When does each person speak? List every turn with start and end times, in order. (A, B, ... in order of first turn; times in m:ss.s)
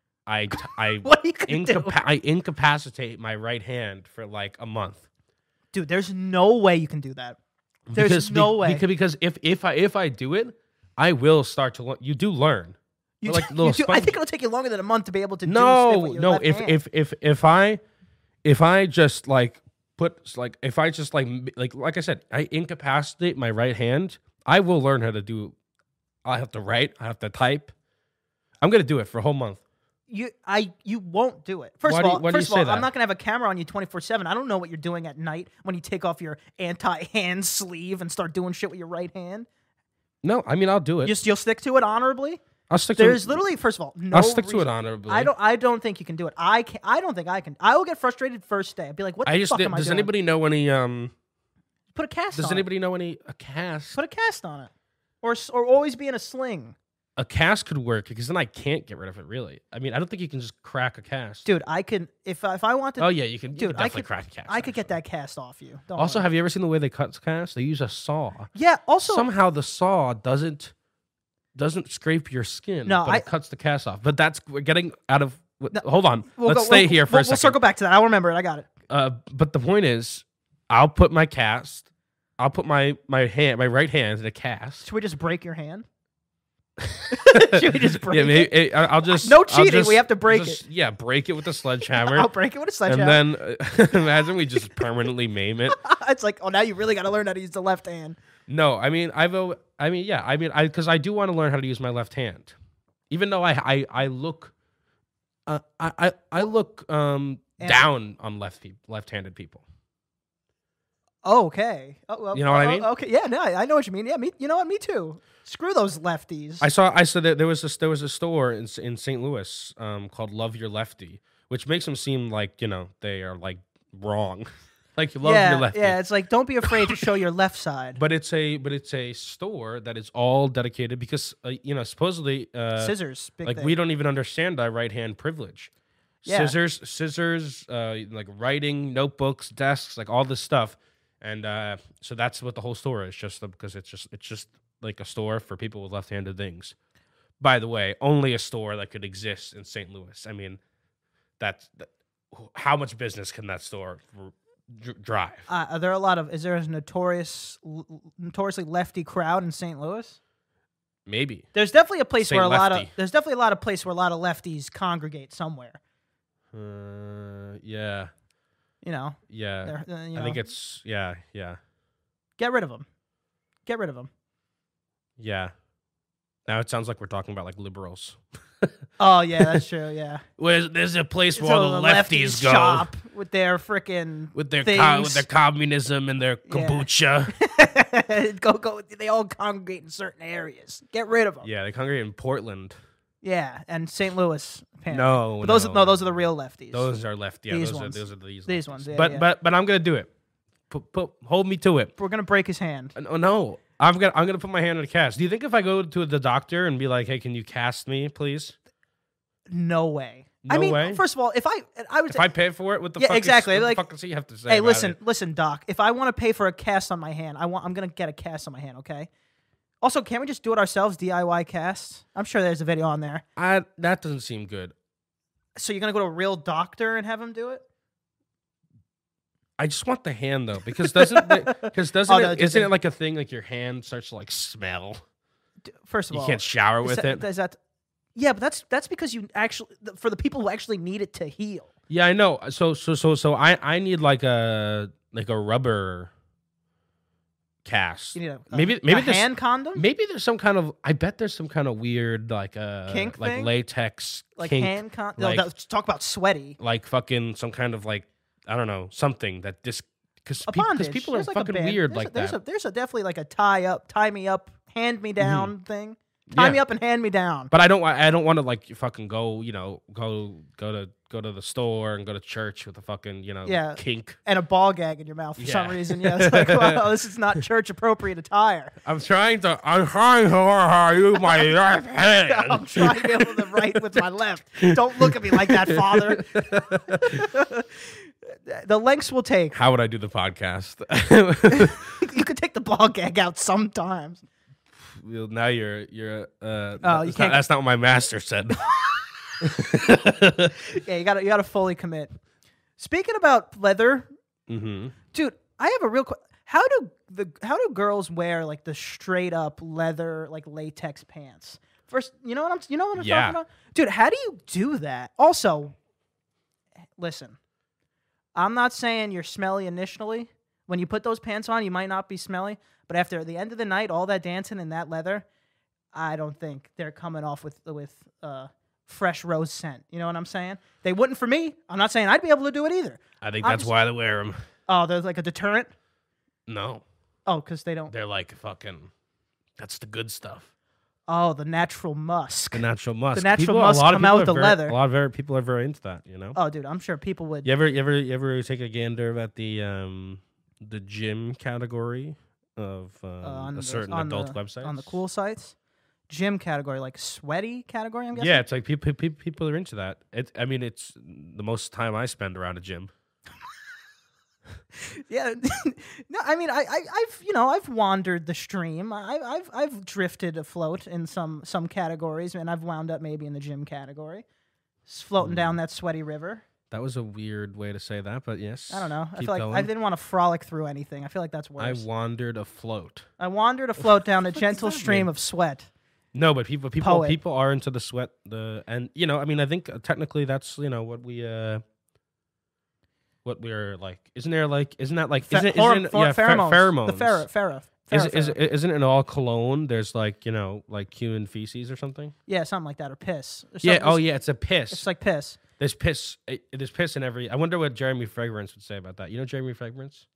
0:00.3-0:05.0 A
0:00.5-0:02.0 B
0:05.7-0:07.4 B
0:07.9-0:14.1 A
0:07.9-0:08.8 B
0:13.2-0:16.8 B
0:15.4-0:17.8 A
0:18.4-0:25.5 A
0:26.2-0:27.7 A
0:28.6-0:29.6 A
0:30.1-0:39.5 B
0:31.8-0:32.9 A
0:40.2-0:41.1 A
0:41.0-0:42.4 B
0:42.7-0:43.4 A
0:43.0-0:50.1 B
0:44.1-0:45.3 A
0:49.2-0:51.1 A
0:51.9-0:52.6 B
0:52.3-0:54.0 A
0:54.0-0:54.7 B
0:55.2-0:56.8 B
0:57.2-1:01.5 A
1:01.4-1:06.2 B
1:03.0-1:05.0 A
1:06.0-1:08.5 A
1:08.5-1:09.2 B
1:09.0-1:10.7 A
1:11.5-1:17.6 A
1:12.8-1:13.2 B
1:15.7-1:18.7 B
1:18.9-1:21.8 A
1:22.4-1:24.9 A
1:24.8-1:25.8 B
1:26.8-1:32.3 A
1:27.1-1:28.5 B
1:29.1-1:30.6 B
1:32.0-1:33.2 B
1:32.8-1:35.8 A
1:35.7-1:38.2 B
1:38.5-1:42.5 A
1:43.1-1:44.5 A
1:45.5-1:49.6 A
1:51.2-1:56.6 B
1:52.3-1:52.9 A
1:56.6-2:06.0 A
2:05.2-2:08.0 B
2:08.0-2:15.7 A
2:12.8-2:13.8 B
2:16.2-2:26.7 A
2:16.2-2:16.6 B
2:27.4-2:30.6 A
2:31.4-2:35.4 A
2:35.5-2:40.2 B
2:41.0-2:41.5 A
2:41.5-2:45.8 B
2:42.2-2:42.9 A
2:46.5-2:48.1 A
2:48.8-2:50.4 B
2:49.3-2:51.6 A
2:52.4-2:52.8 B
2:53.6-2:54.1 B
2:55.2-2:55.5 A
2:56.4-2:58.7 A
2:59.0-3:00.2 B
3:00.4-3:02.9 A
3:01.4-3:05.3 B
3:04.3-3:07.3 A
3:06.5-3:11.5 B
3:11.4-3:12.8 A
3:13.2-3:16.9 B
3:14.9-3:20.1 A
3:17.5-3:19.2 B
3:20.7-3:21.9 A
3:22.0-3:22.9 B
3:22.9-3:28.5 A
3:29.5-3:32.3 B
3:30.4-3:31.0 A
3:32.1-3:35.0 A
3:33.0-3:33.9 B
3:34.5-3:39.1 B
3:39.8-3:43.2 B
3:43.4-3:44.7 A
3:45.6-3:47.6 B
3:49.6-3:55.0 A
3:50.8-3:52.7 B
3:55.7-3:57.6 B
3:56.1-3:57.2 A
3:58.2-4:01.7 B
4:01.9-4:06.1 A
4:07.6-4:15.5 A
4:08.1-4:09.8 B
4:12.9-4:13.5 B
4:14.4-4:16.6 B
4:16.6-4:22.4 A
4:20.4-4:27.5 B
4:25.2-4:25.5 A
4:26.3-4:26.6 A
4:27.5-4:34.2 A
4:33.4-4:38.8 B
4:35.4-4:36.8 A
4:38.8-4:43.5 A
4:41.2-4:41.5 B
4:42.2-4:49.5 B
4:44.6-4:47.3 A
4:49.5-4:51.9 A
4:51.5-4:54.2 B
4:54.8-4:58.7 A
4:56.8-4:57.4 B
4:58.7-4:59.0 B
4:59.4-5:00.6 A
5:00.6-5:02.1 B
5:02.8-5:04.1 B
5:04.5-5:04.9 A
5:05.1-5:15.7 B
5:13.0-5:13.4 A
5:17.0-5:17.4 B
5:18.3-5:25.2 B
5:25.9-5:33.7 B
5:33.2-5:34.4 A
5:34.7-5:35.7 B
5:36.5-5:36.8 A
5:37.2-5:37.9 B
5:37.9-5:38.9 A
5:39.6-5:40.5 A
5:41.1-5:44.8 B
5:42.5-5:46.4 A
5:46.4-5:47.5 B
5:47.4-5:55.0 A
5:53.2-5:55.5 B
5:56.1-5:58.4 B
5:58.1-6:02.9 A
6:04.8-6:14.2 B
6:14.9-6:16.4 B
6:15.2-6:15.6 A
6:16.7-6:19.7 A
6:18.7-6:21.8 B
6:21.6-6:23.0 A
6:23.2-6:25.7 B
6:24.3-6:25.1 A
6:26.1-6:31.6 A
6:26.8-6:27.2 B
6:33.2-6:37.2 A
6:35.3-6:38.4 B
6:37.9-6:42.1 A
6:42.3-6:44.0 B
6:43.6-6:44.8 A
6:44.7-6:45.4 B
6:45.6-6:50.0 A